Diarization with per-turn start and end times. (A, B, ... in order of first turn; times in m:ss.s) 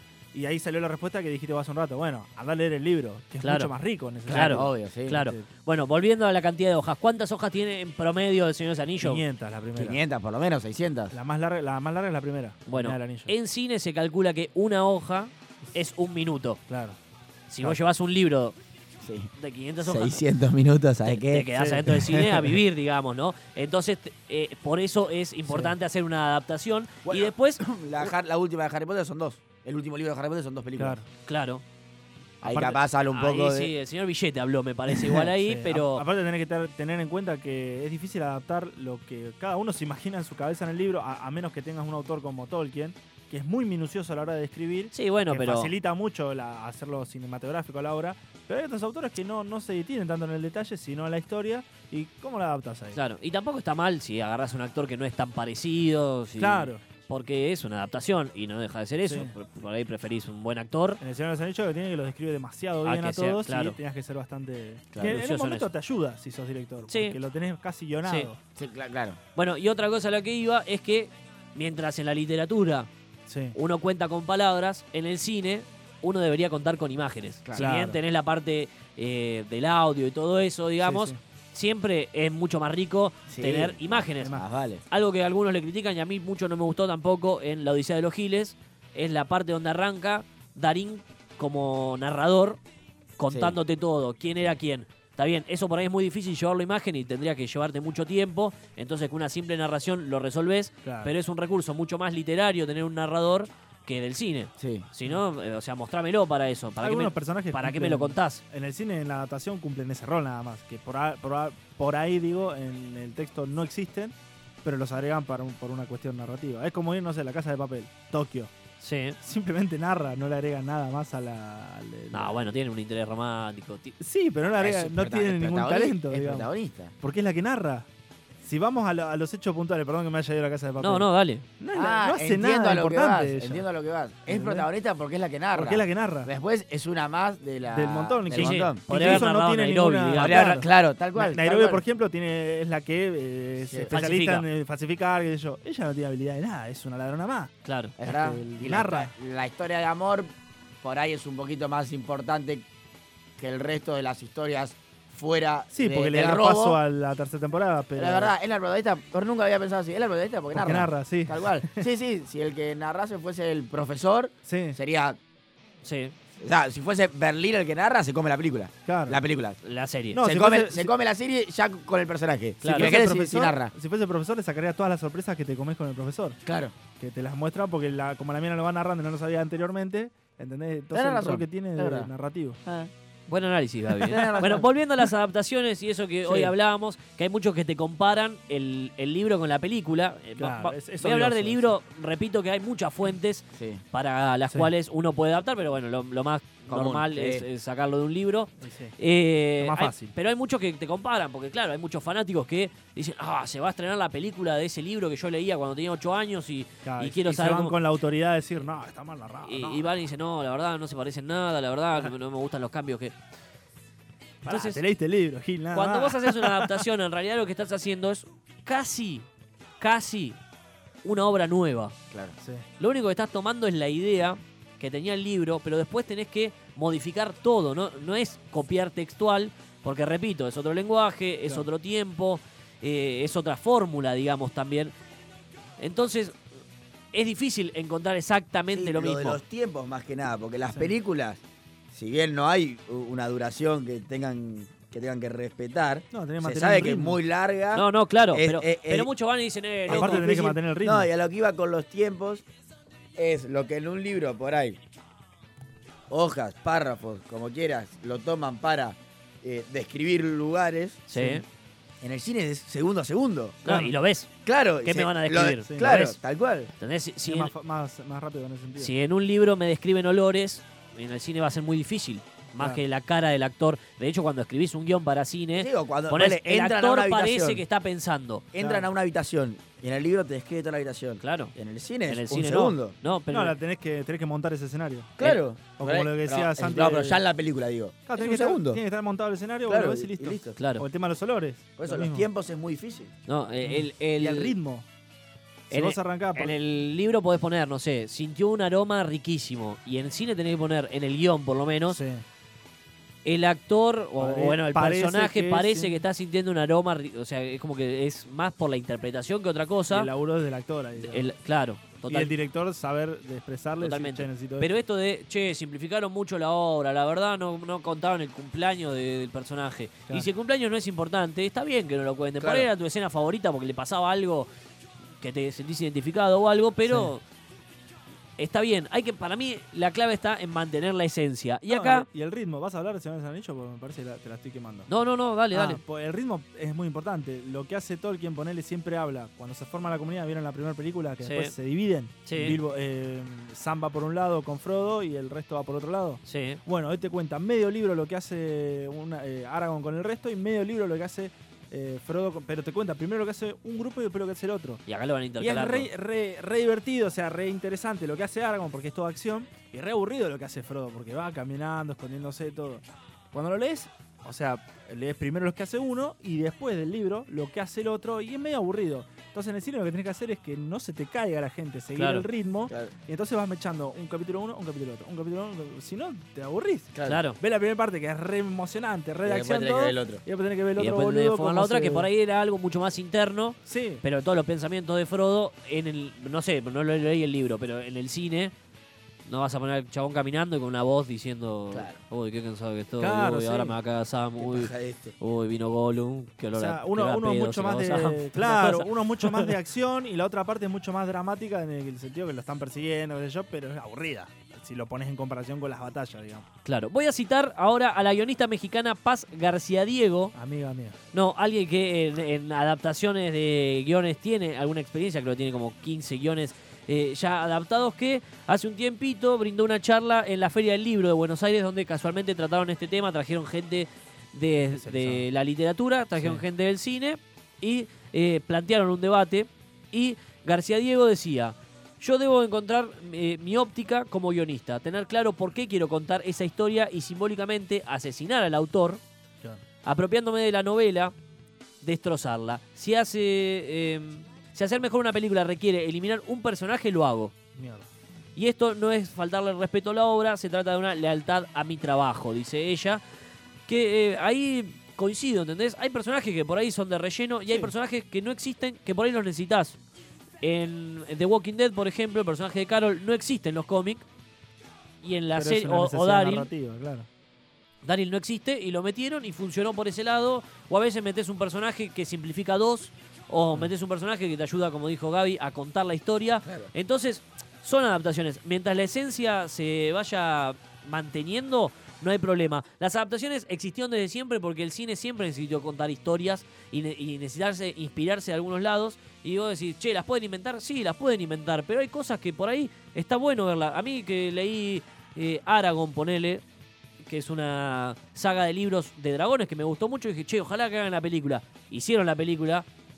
0:00.3-0:05.4 A
0:03.4-0:03.7 B
0:04.3-0:05.2 C
0:04.3-0:09.2 B
0:09.0-0:10.0 A
0:09.8-0:11.1 C
0:11.1-0:13.3 A
0:12.7-0:16.6 B
0:16.7-0:17.0 A
0:17.5-0:18.5 B
0:19.0-0:21.5 C
0:19.4-0:20.2 B
0:21.1-0:27.6 B
0:21.5-0:22.5 A
0:25.5-0:25.7 A
0:27.0-0:31.0 C
0:30.8-0:31.0 A
0:31.2-0:31.6 B
0:32.4-0:32.8 A
0:32.4-0:33.7 C
0:33.1-0:36.0 B
0:35.4-0:53.0 A
0:44.9-0:45.7 B
0:52.9-1:01.0 B
0:56.4-0:56.8 A
0:59.0-0:59.3 A
1:01.0-1:08.4 A
1:02.8-1:03.8 B
1:04.9-1:05.2 C
1:05.0-1:05.7 B
1:06.9-1:07.2 B
1:08.6-1:09.2 C
1:09.3-1:12.9 B
1:13.3-1:13.6 A
1:13.5-1:32.6 B
1:17.6-1:18.0 A
1:20.8-1:21.2 A
1:23.3-1:24.8 C
1:33.2-1:48.4 B
1:33.3-1:33.6 C
1:40.8-1:41.1 A
1:44.6-1:44.9 C
1:46.8-1:58.5 A
1:58.8-1:59.2 B
1:59.2-2:02.5 A
2:02.1-2:03.9 B
2:04.0-2:06.5 A
2:04.5-2:06.9 C
2:07.0-2:07.8 A
2:08.4-2:11.1 A
2:10.8-2:11.4 B
2:11.6-2:13.6 A
2:11.7-2:19.3 C
2:14.3-2:14.7 A
2:15.5-2:16.3 A
2:17.7-2:27.5 A
2:18.3-2:20.4 B
2:20.2-2:21.8 C
2:23.7-2:23.9 C
2:23.9-2:24.4 B
2:27.6-2:27.9 B
2:28.0-2:30.3 C
2:28.0-2:29.1 A
2:30.8-2:32.6 C
2:33.4-2:36.8 C
2:35.7-2:38.3 A
2:38.0-2:45.2 C
2:40.5-2:41.9 A
2:44.4-2:44.8 A
2:45.8-2:46.1 B
2:46.4-2:49.6 C
2:48.8-2:49.2 A
2:49.6-2:50.2 B
2:50.1-2:50.9 A
2:50.2-2:53.7 C
2:52.6-2:52.9 B
2:52.6-2:56.4 A
2:56.4-2:56.7 C
2:57.0-3:02.6 A
3:00.9-3:02.1 C
3:02.6-3:02.9 C
3:03.3-3:27.7 B
3:03.9-3:04.7 C
3:10.4-3:11.7 A
3:13.5-3:13.8 C
3:16.7-3:17.4 C
3:18.6-3:18.9 A
3:19.6-3:20.1 A
3:26.8-3:29.9 A
3:29.4-3:33.1 B
3:34.4-3:36.8 A
3:34.4-3:34.8 B
3:35.7-3:39.3 B
3:39.8-3:40.4 B
3:41.0-3:41.9 B
3:42.1-3:42.4 C
3:42.4-3:42.6 A
3:42.8-3:54.9 B
3:55.8-3:56.4 B
3:57.1-3:59.4 B
3:58.7-4:09.1 C
4:06.1-4:07.2 A
4:07.7-4:10.3 B
4:09.9-4:12.4 C
4:09.9-4:11.1 A
4:13.2-4:14.8 C
4:16.1-4:21.0 C
4:21.1-4:21.4 B
4:21.1-4:21.4 A
4:22.0-4:23.6 C
4:23.6-4:24.3 B
4:23.6-4:23.9 A
4:24.4-4:26.7 C
4:24.8-4:26.1 B
4:25.6-4:26.1 A
4:26.8-4:27.5 B
4:27.2-4:28.9 A
4:28.8-4:38.4 B
4:35.6-4:37.6 C
4:38.5-4:43.0 C
4:38.6-4:38.9 A
4:41.2-4:41.5 B
4:42.1-4:43.5 B
4:43.3-4:47.2 A
4:45.2-4:48.8 C
4:48.1-4:52.3 A
4:49.7-4:50.6 C
4:50.6-4:50.8 B
4:51.8-4:53.1 C
4:53.3-4:54.5 B
4:53.6-4:54.8 A
4:55.7-4:56.5 A
4:55.7-5:02.0 B
5:01.9-5:02.2 A
5:03.2-5:10.1 B
5:04.2-5:06.0 A
5:09.9-5:11.3 A
5:11.0-5:12.3 B
5:12.1-5:14.7 A
5:13.8-5:24.5 B
5:22.4-5:22.7 C
5:25.2-5:27.2 B
5:26.8-5:27.1 A
5:28.4-5:32.0 B
5:31.7-5:34.9 A
5:34.9-5:35.8 B
5:35.5-5:54.8 A
5:41.2-5:41.5 B
5:42.2-5:42.6 B
5:46.2-5:46.6 B
5:54.9-5:55.9 B
5:55.4-6:22.1 A
6:12.0-6:12.2 B
6:16.9-6:17.2 C
6:17.0-6:17.4 B
6:19.2-6:20.2 C
6:20.8-6:28.5 B
6:23.6-6:24.0 A
6:29.2-6:39.5 B
6:31.7-6:32.0 C
6:33.0-6:33.7 A
6:34.4-6:35.2 C
6:36.5-6:46.4 A
6:46.6-6:50.3 B
6:50.3-6:51.0 A
6:51.1-7:19.0 B
7:04.7-7:05.3 A
7:06.2-7:06.4 A
7:19.8-7:21.1 B
7:21.8-7:27.3 B
7:27.5-7:27.9 A
7:28.4-7:33.0 B
7:33.7-7:39.8 B
7:40.4-7:44.0 B
7:45.0-7:46.5 B
7:45.3-7:47.1 A
7:47.8-8:16.4 B
8:17.0-8:22.6 B